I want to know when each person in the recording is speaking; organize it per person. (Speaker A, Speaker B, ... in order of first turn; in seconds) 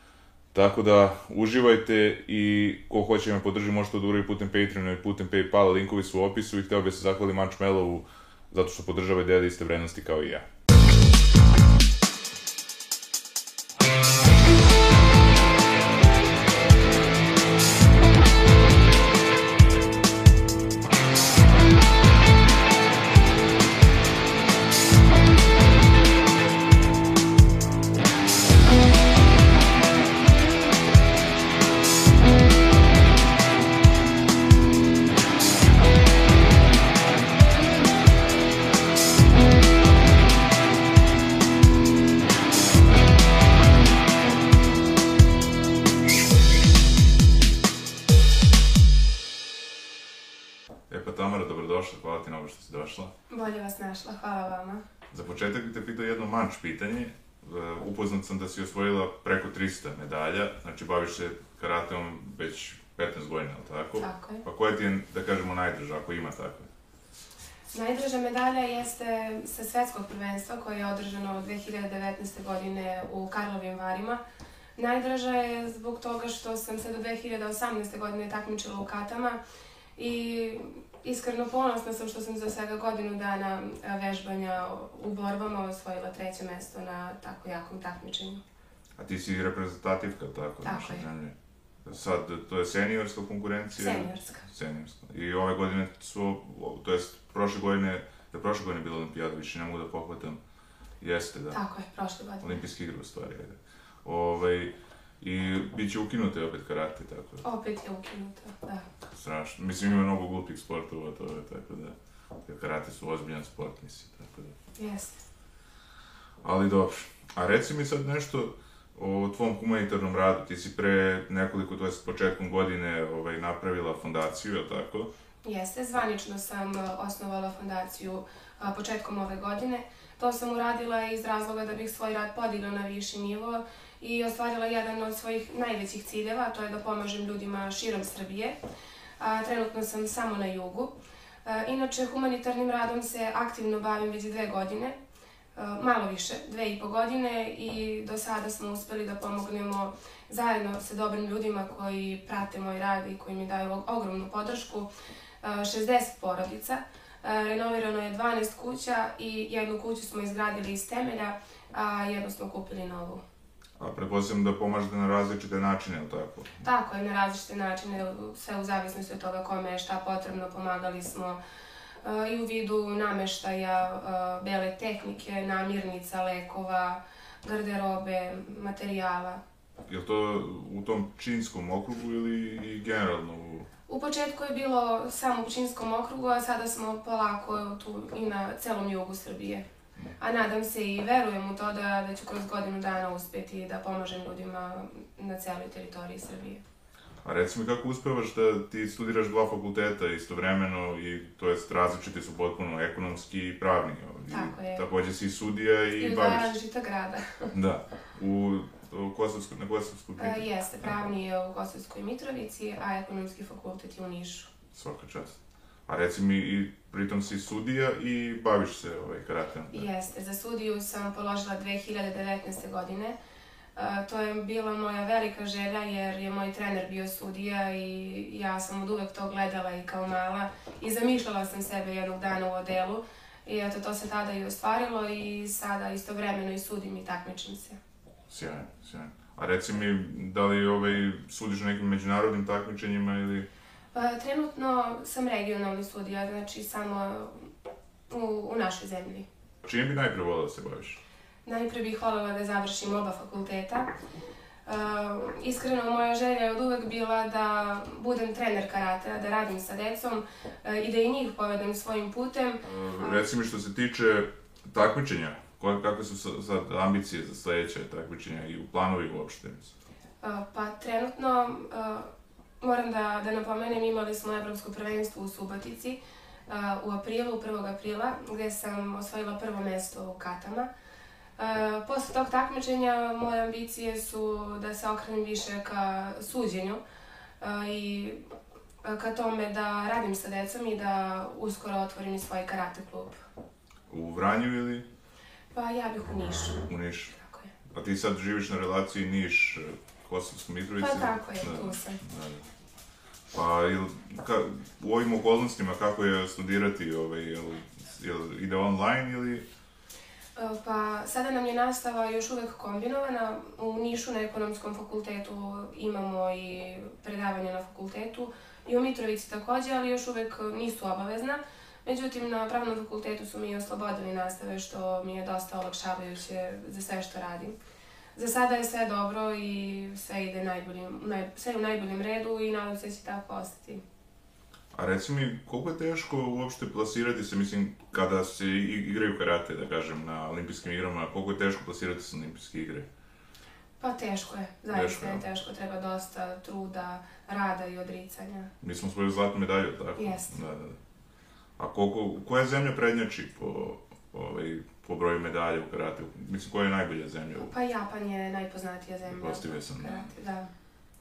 Speaker A: 0.5-10.5, 50.9-53.1, 55.1-66.7, 89.0-100.4, 101.0-101.6, 102.4-107.5, 109.1-114.5, 116.4-125.1, 163.8-166.6, 179.9-183.7, 197.2-206.5, 207.5-210.5, 214.7-215.4, 215.9-219.9, 238.3-243.5, 249.6-251.0, 262.6-269.7, 293.9-294.9, 296.7-297.1, 297.7-302.5, 303.3-309.4, 334.7-342.9, 344.7-345.2, 348.6-350.8, 351.6-357.5, 359.1-360.1
Speaker B: 53.3-54.8, 64.0-64.5, 67.7-74.2, 74.8-79.4, 80.0-88.4, 90.6-91.1, 93.8-94.5, 101.5-102.6, 107.4-108.9, 114.8-115.2, 125.4-138.6, 139.2-145.0, 145.6-154.9, 155.4-163.2, 166.6-171.4, 172.0-179.4, 183.9-189.7, 190.2-196.6, 204.3-204.8, 206.0-207.5, 210.2-214.5, 219.7-223.2, 223.8-237.8, 243.9-247.5, 248.1-249.3, 251.4-253.9, 254.7-263.2, 270.2-272.1, 272.6-280.7, 281.4-286.8, 287.4-288.2, 288.8-293.2, 295.5-297.5, 300.8-302.0, 310.4-327.6, 328.1-333.8, 343.8-348.5, 350.0-350.4, 357.4-360.5